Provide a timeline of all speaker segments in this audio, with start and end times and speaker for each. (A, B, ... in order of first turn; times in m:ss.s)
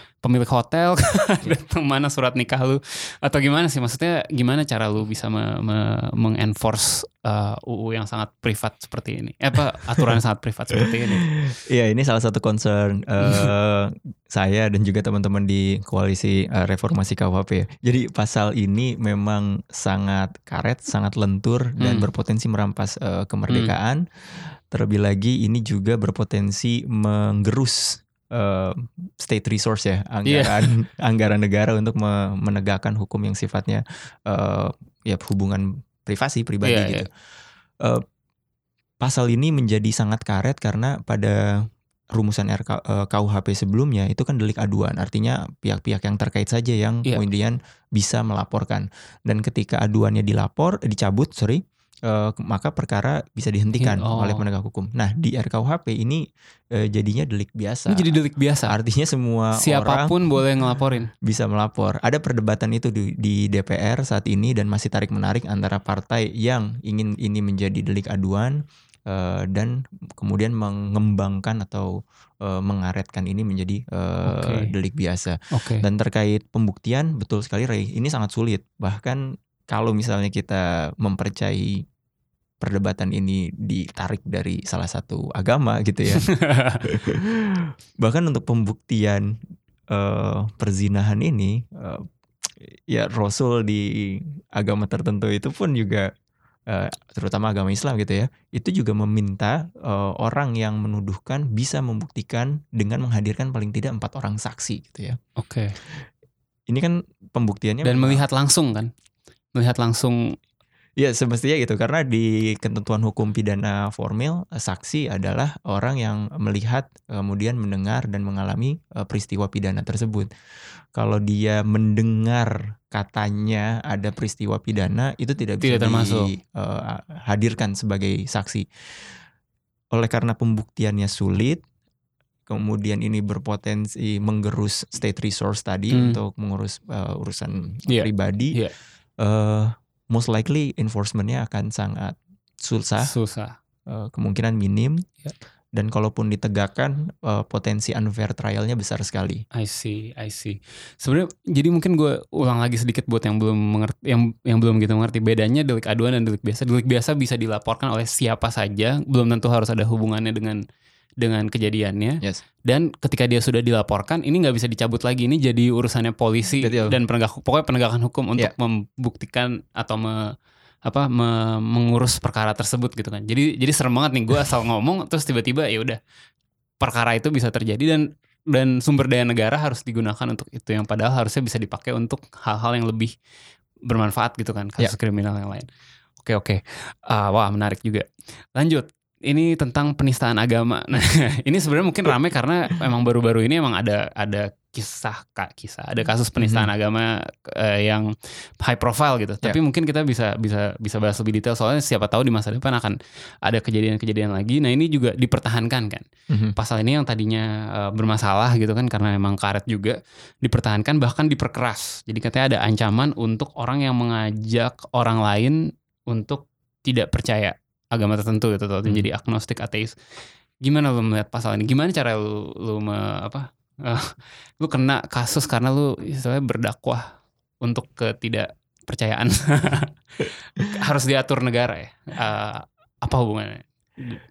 0:00.2-0:11.3 A
0:11.3-0:37.1 B
0:13.2-0:13.5 A
0:21.8-0:22.1 A
0:23.5-0:23.7 A
0:30.3-0:30.7 A
0:36.6-0:37.1 A
0:39.0-0:41.6 B
0:42.1-1:00.1 B
0:53.8-0:54.4 A
0:57.9-0:58.8 A
0:59.5-1:01.1 A
1:01.2-1:21.8 B
1:14.3-1:14.7 A
1:15.5-1:15.9 A
1:22.6-1:26.2 B
1:26.2-1:26.8 A
1:26.8-1:29.4 B
1:29.9-1:36.1 B
1:36.7-1:45.2 B
1:45.4-1:45.8 A
1:46.7-1:48.2 B
1:47.8-1:48.9 A
1:49.6-1:50.4 A
1:51.0-2:00.3 B
2:00.9-2:09.2 B
2:05.6-2:06.3 A
2:09.9-2:11.6 B
2:12.5-2:18.6 B
2:15.9-2:16.2 A
2:17.9-2:18.7 A
2:19.2-2:23.1 B
2:23.0-2:23.6 A
2:23.9-2:25.0 B
2:25.7-2:29.4 B
2:29.5-2:40.6 A
2:41.2-2:50.2 A
2:46.6-2:47.0 B
2:50.8-2:56.0 A
2:56.8-3:03.1 A
3:03.9-3:05.7 A
3:06.2-3:40.0 A
3:16.4-3:16.7 B
3:26.3-3:26.6 B
3:40.6-3:47.1 A
3:47.6-3:49.9 A
3:50.7-3:54.2 A